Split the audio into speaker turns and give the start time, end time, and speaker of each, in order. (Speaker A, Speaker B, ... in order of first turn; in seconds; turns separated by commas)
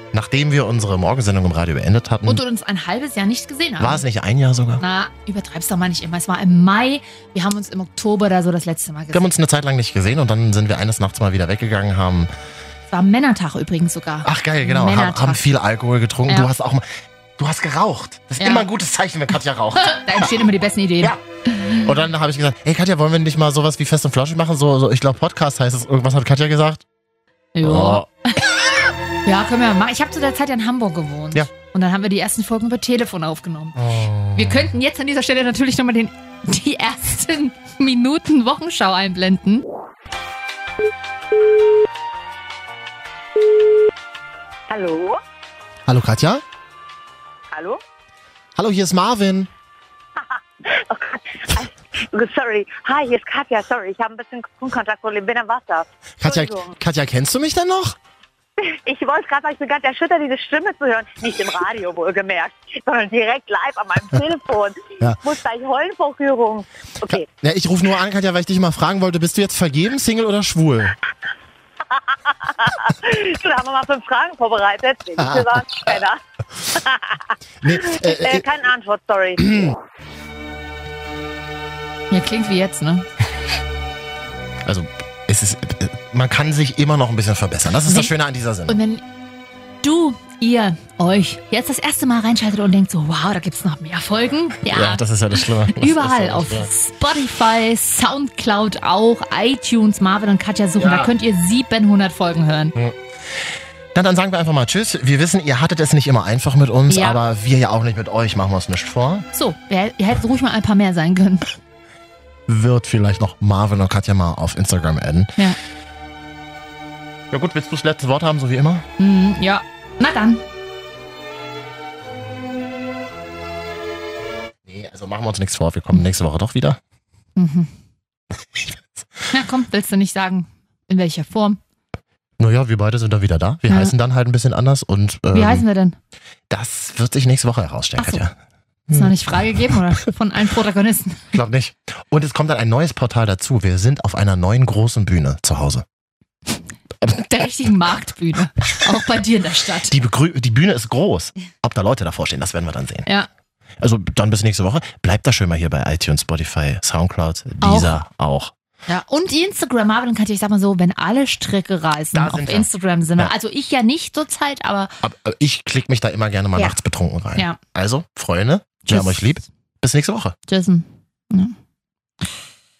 Speaker A: 0.1-2.4, Speaker B: 2.3-4.0, Speaker A: 3.8-4.8, Speaker B: 4.8-9.3, Speaker A: 9.1-12.3, Speaker B: 12.9-15.5, Speaker A: 14.2-16.9, Speaker A: 17.4-20.4, Speaker B: 18.4-18.7, Speaker B: 19.7-21.9, Speaker A: 21.8-26.8, Speaker B: 27.6-28.4, Speaker A: 27.6-28.1, Speaker B: 29.2-33.8, Speaker A: 33.8-34.7, Speaker B: 34.4-39.6, Speaker C: 44.7-45.2, Speaker A: 45.9-46.4, Speaker C: 47.5-47.8, Speaker A: 48.6-49.5, Speaker C: 50.2-56.8, Speaker A: 56.2-58.0, Speaker C: 58.7-67.3, Speaker A: 67.1-71.0, Speaker C: 71.9-76.2, Speaker A: 75.2-76.0, Speaker C: 76.7-79.7, Speaker A: 77.6-78.5, Speaker A: 79.4-79.7, Speaker B: 82.1-83.1, Speaker A: 84.7-88.8, Speaker B: 87.8-88.1, Speaker B: 88.7-89.0, Speaker B: 89.8-102.8, Speaker A: 94.6-96.7, Speaker A: 100.8-101.1, Speaker A: 102.8-109.3, Speaker B: 106.9-107.2, Speaker B: 109.3-111.5, Speaker A: 112.5-115.4, Speaker A: 117.3-118.9, Speaker B: 119.0-120.4, Speaker A: 124.7-126.8, Speaker B: 127.4-127.7, Speaker A: 128.6-129.1, Speaker B: 129.3-131.6, Speaker A: 132.4-135.7, Speaker B: 133.7-133.9, Speaker B: 135.3-136.0, Speaker A: 136.5-138.3, Speaker B: 138.0-138.2, Speaker A: 138.9-139.1, Speaker B: 138.9-141.4, Speaker A: 141.3-145.8, Speaker B: 147.1-149.9, Speaker A: 149.9-153.1, Speaker A: 153.8-158.5, Speaker B: 157.6-157.9, Speaker B: 158.9-165.0, Speaker A: 162.1-163.3, Speaker A: 165.0-170.3, Speaker B: 168.9-169.4, Speaker B: 170.5-171.6